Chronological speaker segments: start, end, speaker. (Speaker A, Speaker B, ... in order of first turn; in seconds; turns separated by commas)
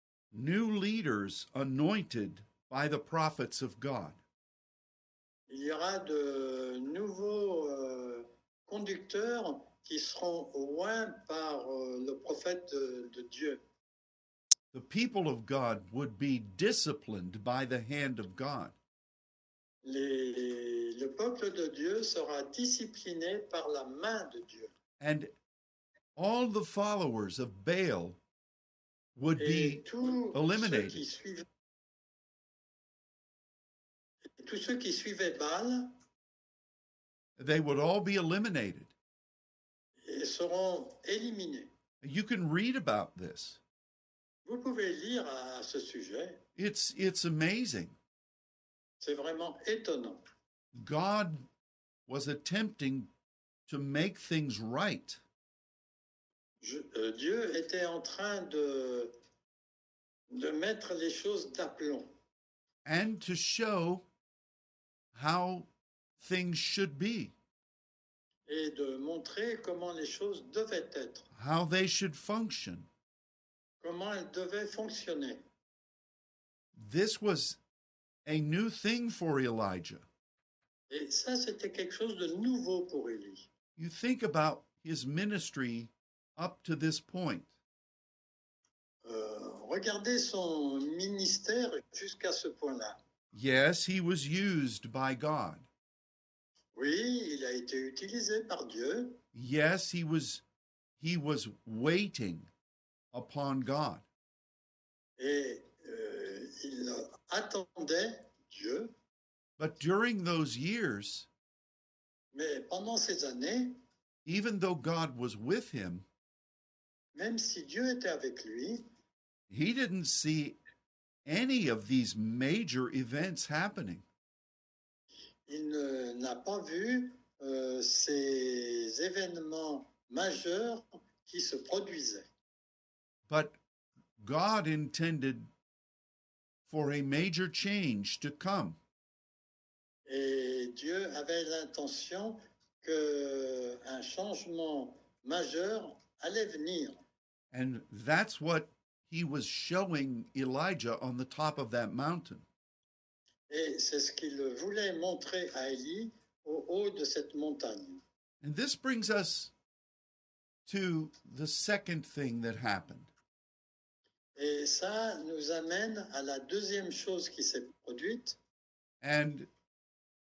Speaker A: 0.3-4.2, Speaker B: 5.5-13.6, Speaker A: 14.7-18.8, Speaker B: 19.8-24.7, Speaker A: 25.0-25.3, Speaker A: 26.1-28.2, Speaker A: 29.1-31.0, Speaker B: 29.4-31.4, Speaker B: 34.3-36.0, Speaker A: 37.4-38.9, Speaker B: 40.0-41.7, Speaker A: 42.0-43.6, Speaker B: 44.4-46.4, Speaker A: 46.5-48.0, Speaker B: 49.0-50.2, Speaker A: 50.7-51.5, Speaker A: 52.1-53.1, Speaker A: 53.7-55.2, Speaker B: 56.6-59.1, Speaker B: 60.3-62.1, Speaker A: 62.8-64.0, Speaker A: 65.1-65.7, Speaker A: 66.2-67.3, Speaker B: 68.5-71.3, Speaker A: 71.3-72.9, Speaker B: 73.8-75.4, Speaker A: 76.7-77.6, Speaker A: 78.2-80.0, Speaker B: 80.9-83.5, Speaker A: 83.8-87.5, Speaker B: 89.0-93.0, Speaker A: 93.3-95.7, Speaker B: 96.7-99.2, Speaker A: 99.3-100.4, Speaker A: 101.0-102.5, Speaker A: 103.1-104.0, Speaker B: 105.2-108.9, Speaker A: 109.6-111.3, Speaker B: 112.3-113.8, Speaker A: 114.2-116.0, Speaker B: 117.1-118.8, Speaker A: 119.5-120.5, Speaker A: 121.2-124.0, Speaker B: 125.5-132.3, Speaker A: 133.3-133.6, Speaker A: 134.2-135.5, Speaker A: 136.7-138.8, Speaker B: 140.1-147.0, Speaker A: 147.5-152.4, Speaker B: 153.5-158.0, Speaker A: 158.4-159.5, Speaker A: 160.7-163.1, Speaker B: 164.3-168.4, Speaker A: 169.0-169.5